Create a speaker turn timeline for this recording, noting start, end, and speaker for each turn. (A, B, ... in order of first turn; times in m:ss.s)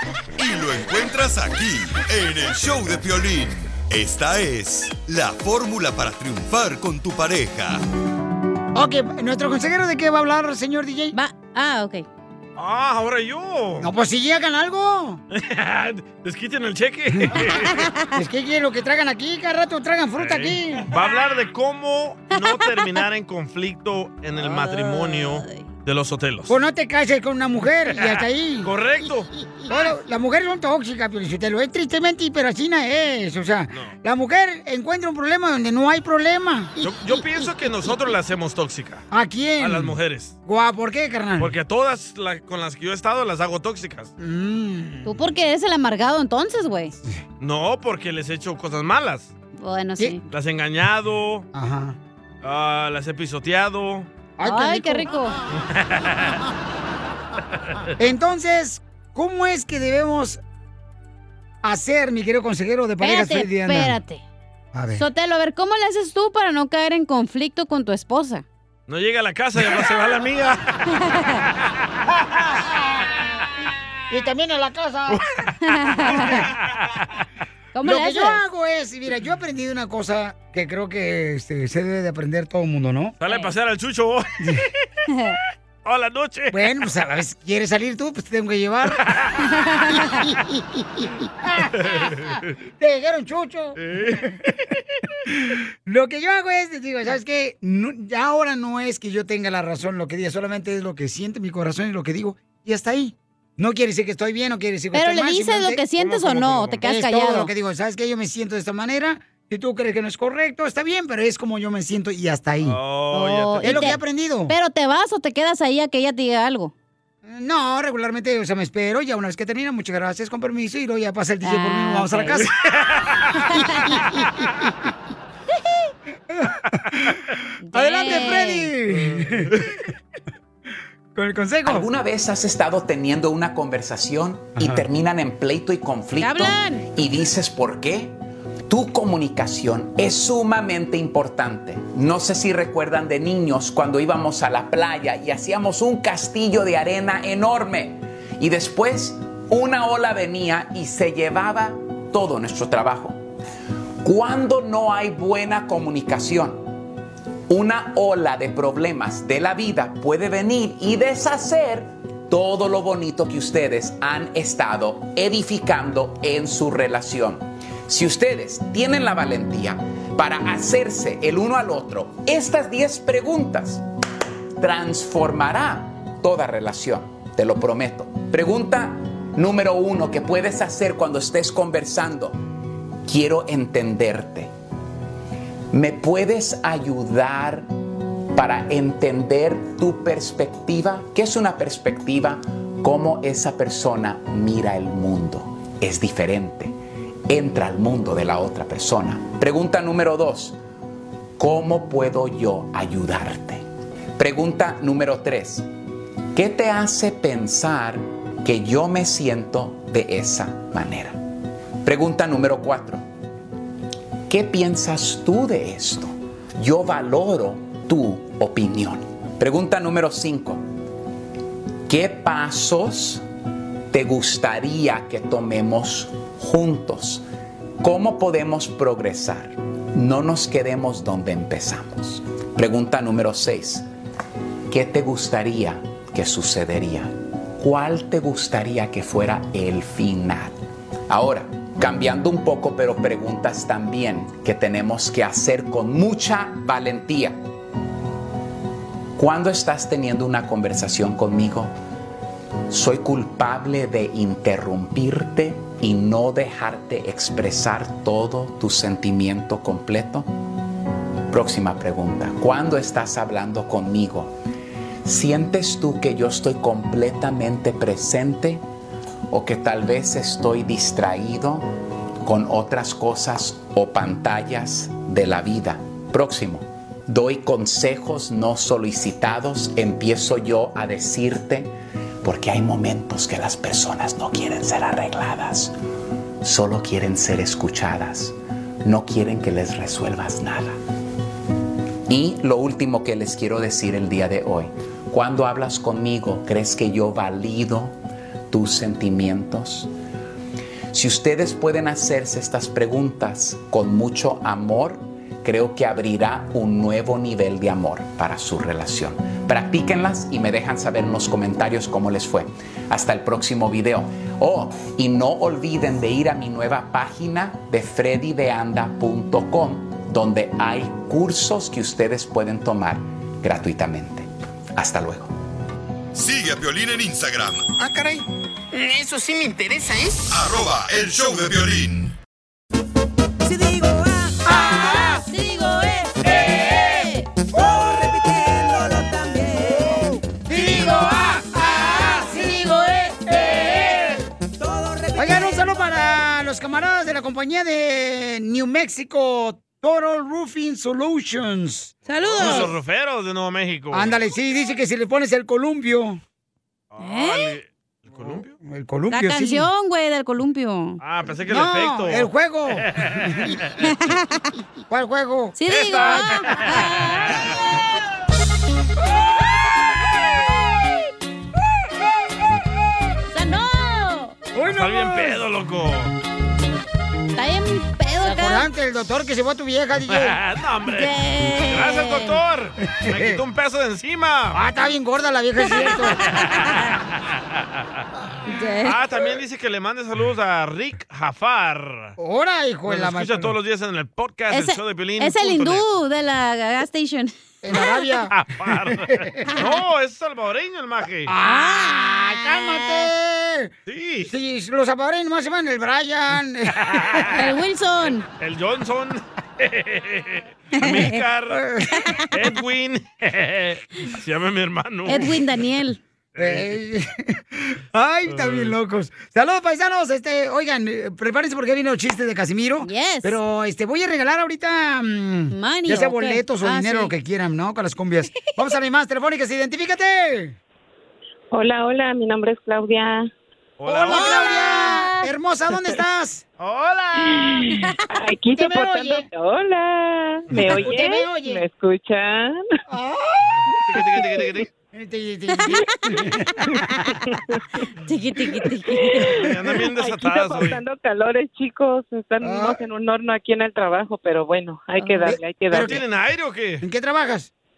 0:00.4-0:07.8 A
0:08.7-0:11.2 B
0:11.1-0:12.0 C
0:12.6-0:13.9 D
0:13.8-0:15.2 B
0:15.3-0:17.9 D
0:17.1-0:17.5 B
0:17.7-0:18.1 C
0:18.1-0:20.9 B
0:20.2-0:26.6 D
0:22.3-0:22.7 C
0:24.4-0:25.6 C
0:26.5-0:28.7 B
0:28.0-0:29.3 D
0:29.7-0:36.8 B
0:36.8-0:39.1 D
0:39.1-0:41.5 B
0:39.6-0:40.3 D
0:41.4-0:44.1 D
0:44.2-0:45.2 B
0:45.0-0:47.0 C
0:47.4-0:49.3 D
0:49.6-0:50.2 C
0:50.3-0:51.4 D
0:51.5-0:52.0 B
0:52.4-0:54.1 D
0:54.4-0:55.1 B
0:54.4-0:55.4 C
0:55.6-0:56.4 D
0:58.0-1:00.4 B
1:01.6-1:04.0 B
1:03.0-1:04.2 C
1:04.7-1:05.0 B
1:05.0-1:08.4 C
1:08.9-1:10.8 D
1:10.9-1:11.4 C
1:14.1-1:15.2 B
1:15.6-1:16.4 C
1:16.0-1:16.5 B
1:16.5-1:17.0 D
1:17.7-1:18.4 C
1:17.8-1:23.2 B
1:23.2-1:24.3 D
1:25.1-1:25.4 C
1:25.8-1:26.7 D
1:26.5-1:29.1 B
1:29.0-1:29.3 D
1:29.9-1:32.2 B
1:31.8-1:32.4 D
1:32.8-1:34.3 B
1:33.8-1:34.3 D
1:35.3-1:45.8 B
1:44.9-1:47.5 C
1:46.0-1:46.8 D
1:46.8-1:52.8 B
1:52.6-1:54.0 D
1:53.1-1:56.7 C
1:53.6-1:54.5 B
1:57.2-2:02.5 B
2:01.4-2:02.4 C
2:02.8-2:03.3 D
2:03.4-2:04.0 C
2:03.7-2:04.5 B
2:06.3-2:07.2 B
2:07.6-2:08.7 C
2:07.7-2:09.6 B
2:09.0-2:09.6 D
2:11.1-2:11.9 B
2:11.6-2:18.2 E
2:14.6-2:14.8 B
2:16.2-2:16.8 C
2:18.7-2:33.2 E
2:34.0-2:36.6 E
2:37.5-2:53.8 E
2:54.6-3:02.4 E
3:03.0-3:04.5 E
3:05.7-3:07.7 E
3:08.3-3:16.7 E
3:17.3-3:20.6 E
3:21.4-3:23.6 E
3:24.2-3:25.6 E
3:26.3-3:31.2 E
3:31.8-3:33.0 E
3:34.3-3:40.6 E
3:41.9-3:43.2 E
3:43.9-3:47.2 E
3:47.8-3:53.8 E
3:54.7-4:00.5 E
4:01.1-4:07.4 E
4:09.2-4:11.7 E
4:12.7-4:20.3 E
4:21.3-4:24.3 E
4:25.0-4:28.6 E
4:29.3-4:31.7 E
4:32.2-4:45.7 E
4:46.4-4:50.8 E
4:52.1-4:58.0 E
4:58.5-4:59.9 E
5:00.9-5:25.3 E
5:26.1-5:27.6 A
5:27.8-5:30.3 F
5:30.3-5:32.1 A
5:33.5-5:37.3 C
5:34.5-5:35.2 B
5:36.4-5:36.9 B
5:39.1-5:39.6 C
5:40.5-5:44.2 B
5:44.9-5:45.6 C
5:45.2-5:52.7 B
5:52.0-5:52.7 C
5:52.2-5:54.2 D
5:53.9-5:56.2 B
5:56.9-5:58.5 D
5:57.0-5:57.5 C
5:58.2-5:59.7 B
5:59.1-6:01.0 C
6:01.0-6:03.7 D
6:01.5-6:03.6 B
6:03.8-6:04.5 C
6:04.9-6:05.6 B
6:05.6-6:07.2 C
6:05.7-6:07.5 D
6:13.3-6:14.4 C
6:14.5-6:15.4 B
6:14.6-6:16.1 D
6:17.3-6:18.6 C
6:18.2-6:20.4 B
6:20.1-6:24.6 D
6:20.9-6:22.3 C
6:23.0-6:23.4 B
6:24.5-6:26.2 B
6:25.7-6:26.9 C
6:27.2-6:27.6 D
6:28.5-6:29.0 C
6:28.8-6:32.1 D
6:32.2-6:33.5 B
6:32.9-6:35.8 D
6:34.5-6:38.0 C
6:37.6-6:39.6 B
6:38.3-6:41.3 D
6:41.3-6:43.7 B
6:41.4-6:43.1 C
6:43.9-6:44.3 D
6:44.3-6:47.3 B
6:46.8-6:47.4 D
6:47.3-6:48.2 C
6:48.4-6:51.6 D
6:50.8-6:51.2 C
6:51.5-6:52.1 B
6:52.3-6:55.3 D
6:55.0-6:56.0 C
6:56.4-6:56.8 D
6:56.4-7:10.6 B
6:58.3-6:58.8 D
7:02.8-7:03.4 C
7:05.5-7:07.1 C
7:11.5-7:13.3 G
7:13.8-7:14.9 D
7:13.9-7:16.4 B
7:14.1-7:15.2 C
7:16.6-7:17.6 D
7:17.3-7:22.6 G
7:18.6-7:19.2 B
7:20.5-7:20.9 D
7:20.6-7:21.6 B
7:22.9-7:23.5 B
7:23.9-7:24.7 D
7:24.9-7:27.0 B
7:27.3-7:27.6 G
7:28.0-7:29.4 C
7:29.1-7:35.9 G
7:29.4-7:30.8 D
7:32.4-7:32.8 B
7:35.0-7:35.3 C
7:35.2-7:36.0 B
7:35.7-7:36.8 D
7:36.8-7:37.5 B